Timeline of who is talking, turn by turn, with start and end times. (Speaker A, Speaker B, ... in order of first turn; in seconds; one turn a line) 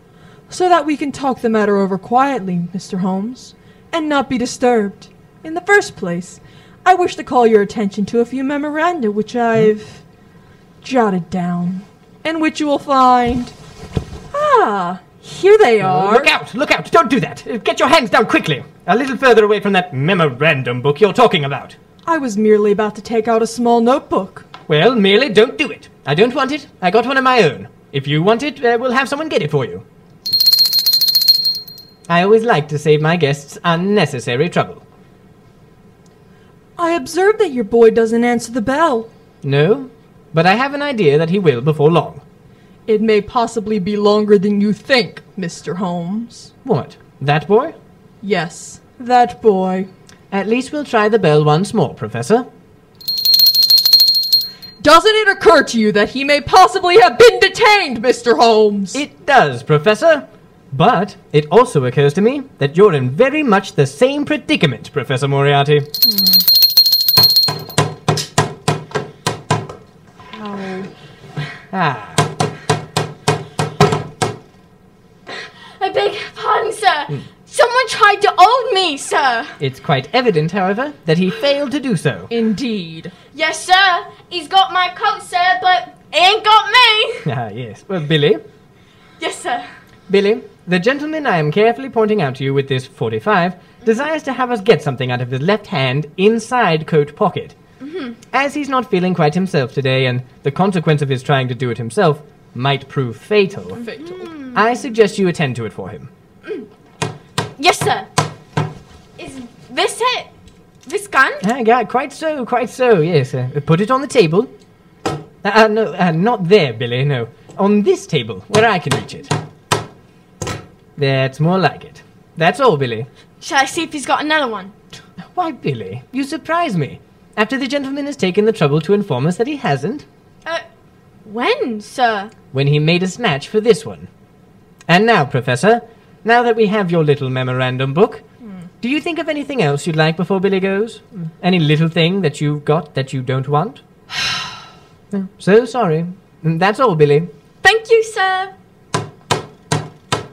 Speaker A: 0.5-10.0
Speaker A: 10.8-13.5
Speaker A: 14.3-16.3
Speaker B: 15.8-21.8
Speaker A: 22.1-24.5
Speaker B: 24.7-29.9
Speaker B: 32.1-34.8
Speaker A: 36.8-39.1
Speaker B: 39.4-42.2
Speaker A: 42.9-46.5
Speaker B: 46.6-47.8
Speaker A: 48.2-49.9
Speaker B: 50.3-52.5
Speaker A: 54.8-59.0
Speaker B: 58.9-65.9
Speaker A: 66.1-66.4
Speaker A: 70.3-70.9
Speaker B: 71.7-72.3
Speaker C: 75.8-79.6
Speaker B: 79.6-82.3
Speaker A: 82.3-83.2
Speaker C: 83.3-87.3
Speaker B: 87.2-88.4
Speaker C: 89.2-89.7
Speaker B: 90.1-97.6
Speaker C: 97.8-98.2
Speaker B: 98.3-103.8
Speaker A: 103.8-104.2
Speaker C: 103.9-104.6
Speaker B: 104.5-106.1
Speaker C: 107.6-108.1
Speaker C: 109.2-110.3
Speaker C: 110.9-111.4
Speaker B: 111.4-114.5
Speaker B: 115.4-119.3
Speaker B: 121.0-123.1
Speaker C: 123.4-124.7
Speaker B: 125.2-130.1
Speaker C: 131.2-132.3
Speaker B: 132.5-134.1
Speaker B: 134.9-138.2
Speaker B: 138.8-143.8
Speaker B: 145.1-147.3
Speaker C: 147.6-148.5